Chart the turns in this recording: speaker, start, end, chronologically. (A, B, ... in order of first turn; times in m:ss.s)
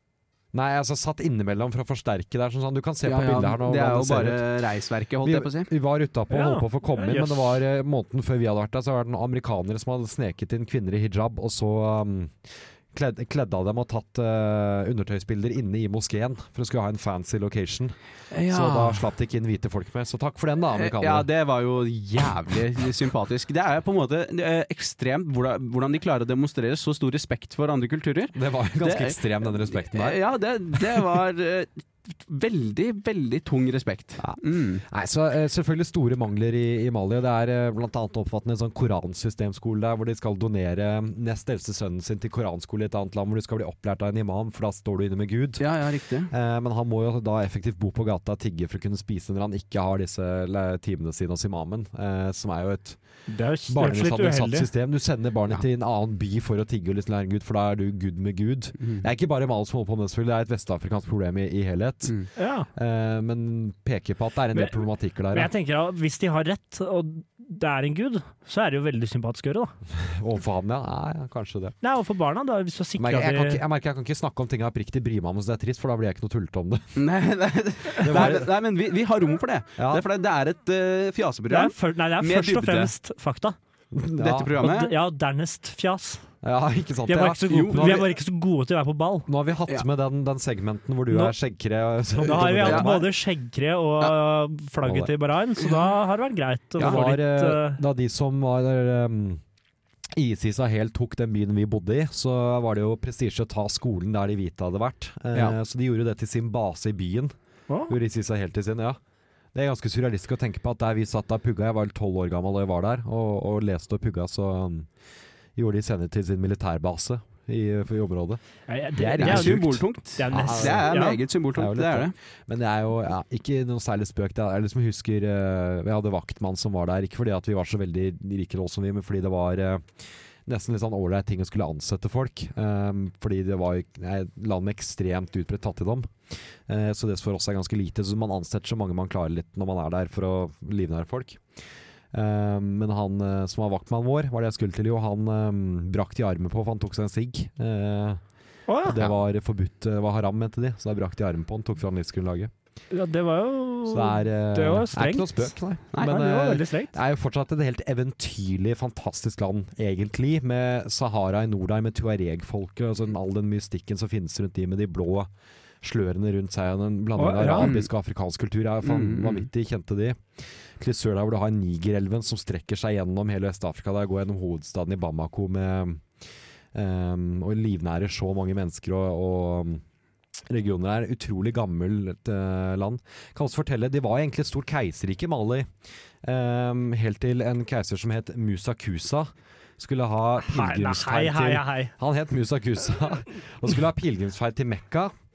0:00.5-0:04.4 A
0:03.0-0:05.7 B
0:05.2-0:12.4 A
0:06.3-0:07.6 C
0:12.9-0:17.9 A
0:18.3-0:19.0 B
0:18.5-0:21.3 A
0:20.8-0:34.8 B
0:28.4-0:30.2 A
0:34.2-0:45.7 A
0:45.6-0:46.3 B
0:46.3-0:53.0 A
0:53.3-0:54.7 C
0:53.7-1:05.5 A
1:02.4-1:02.7 C
1:05.3-1:09.7 C
1:10.0-1:11.8 A
1:11.8-1:13.6 C
1:13.0-1:16.8 A
1:17.0-1:22.9 B
1:18.0-1:18.5 A
1:19.8-1:20.0 A
1:21.5-1:23.6 C
1:23.9-1:24.6 A
1:24.2-1:24.9 B
1:24.6-1:26.2 C
1:26.4-1:28.1 A
1:27.1-1:29.3 C
1:27.5-1:28.0 B
1:29.3-1:33.1 A
1:32.2-1:37.8 C
1:32.3-1:33.0 B
1:34.8-1:35.1 A
1:36.8-1:39.4 A
1:36.8-1:37.0 B
1:40.2-1:47.3 A
1:47.7-1:48.0 C
1:47.9-1:49.0 A
1:49.5-1:54.9 A
1:55.6-1:58.4 A
1:58.7-2:01.2 C
1:59.0-2:01.0 A
1:59.2-2:02.1 B
2:01.5-2:16.1 A
2:16.7-2:21.4 A
2:22.1-2:28.2 A
2:28.7-2:29.1 C
2:28.8-2:32.5 A
2:32.9-2:37.0 C
2:33.9-2:45.3 A
2:35.9-2:36.3 B
2:45.8-2:50.2 A
2:47.2-2:47.7 C
2:47.6-2:47.9 B
2:48.8-2:49.5 B
2:50.8-2:56.0 A
2:56.7-2:59.8 A
3:00.5-3:05.7 A
3:06.2-3:15.1 A
3:10.4-3:11.9 C